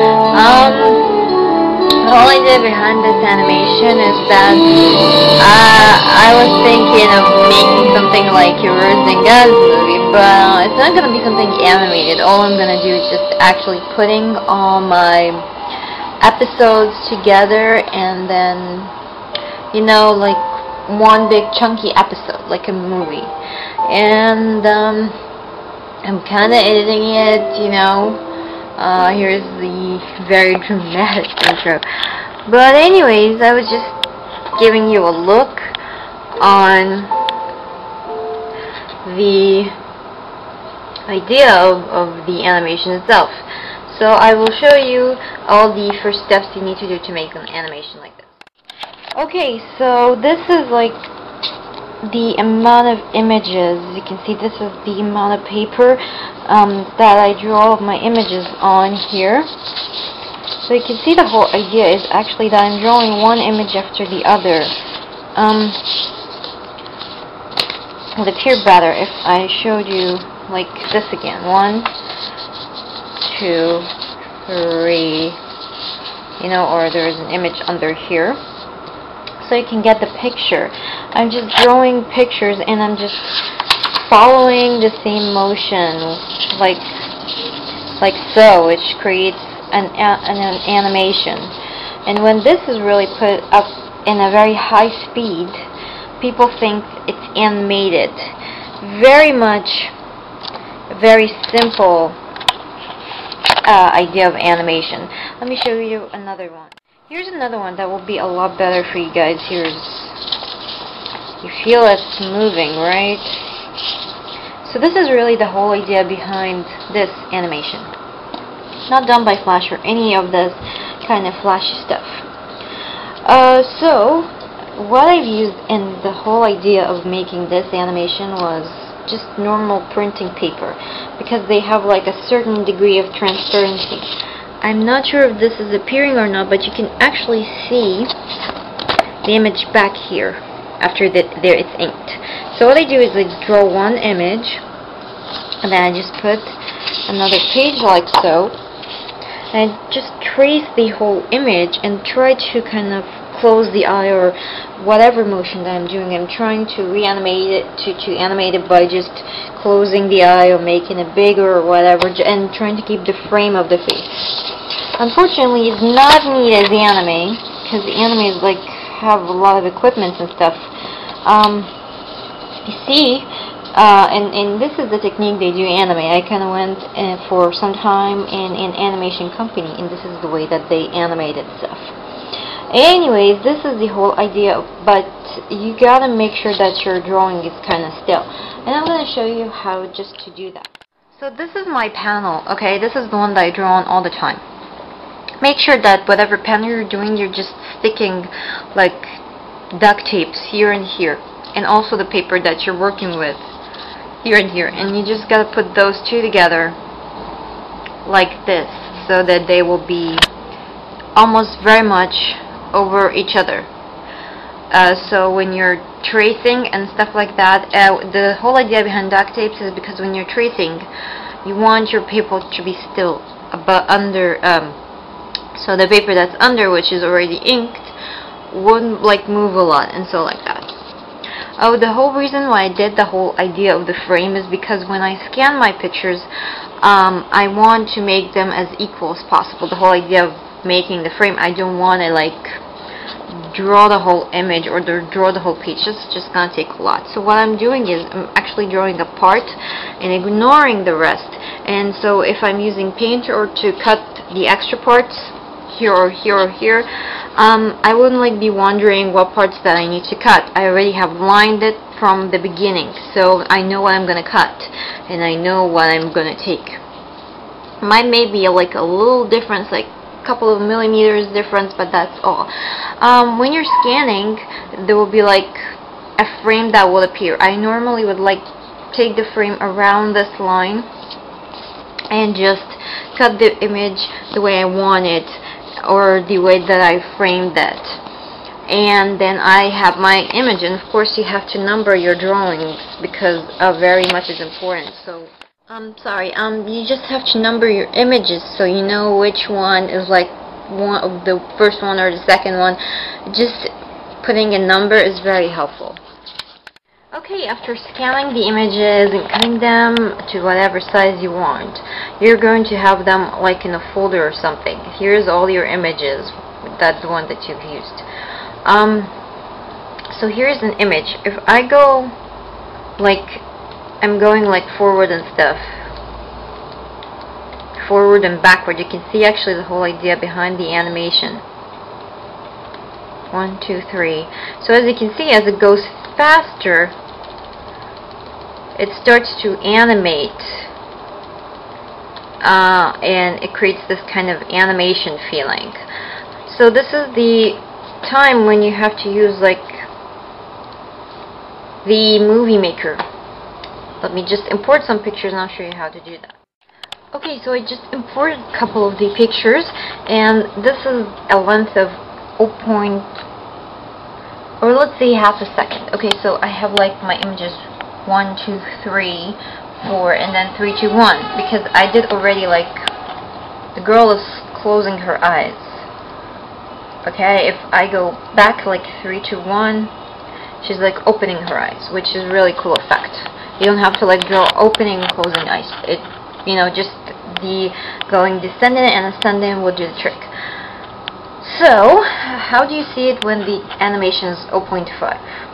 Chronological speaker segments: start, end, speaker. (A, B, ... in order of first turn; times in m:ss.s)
0:00.3-0:01.0 A
0:02.0-0:04.7 A
0:05.4-0:15.5 A
0:16.2-0:18.9 A
0:19.7-0:23.3 A
0:23.9-0:25.2 A
0:26.0-0:28.2 A
0:28.8-0:31.8 A
0:32.5-0:34.0 A
0:34.6-0:35.7 A
0:36.4-0:37.2 A
0:39.0-0:39.8 A
0:41.1-0:48.4 A
0:49.2-0:51.1 A
0:52.0-0:59.5 A
1:00.7-1:04.8 A
1:05.4-1:05.9 A
1:08.2-1:11.9 A
1:13.2-1:13.9 A
1:14.4-1:15.4 A
1:16.4-1:18.4 A
1:19.4-1:27.1 A
1:28.0-1:31.6 A
1:32.1-1:35.6 A
1:36.2-1:39.9 A
1:40.9-1:42.2 A
1:43.6-1:50.2 A
1:51.4-1:53.5 A
1:54.6-1:57.9 A
1:58.9-2:02.3 A
2:02.8-2:18.1 A
2:19.2-2:24.6 A
2:25.6-2:28.6 A
2:29.5-2:51.7 A
2:52.6-3:14.4 A
3:15.4-3:19.2 A
3:19.7-3:23.5 A
3:24.2-3:26.8 A
3:28.0-3:30.3 A
3:31.2-3:33.7 A
3:34.7-3:40.9 A
3:41.4-3:44.8 A
3:45.6-3:48.0 A
3:48.5-3:50.8 A
3:51.6-3:56.3 A
3:56.8-4:02.6 A
4:03.3-4:26.8 A
4:27.8-4:40.9 A
4:42.1-4:48.0 A
4:48.7-5:06.0 A
5:07.1-5:18.1 A
5:18.6-5:19.1 A
5:20.1-5:22.1 A
5:23.0-5:23.4 A
5:24.0-5:25.8 A
5:27.8-5:31.4 A
5:33.3-5:37.0 A
5:38.8-5:40.7 A
5:42.4-5:45.8 A
5:46.5-5:49.9 A
5:51.8-5:53.0 A
5:54.0-5:56.4 A
5:57.1-6:03.1 A
6:04.6-6:12.9 A
6:13.8-6:15.9 A
6:17.0-6:19.9 A
6:20.6-6:30.3 A
6:31.4-6:35.2 A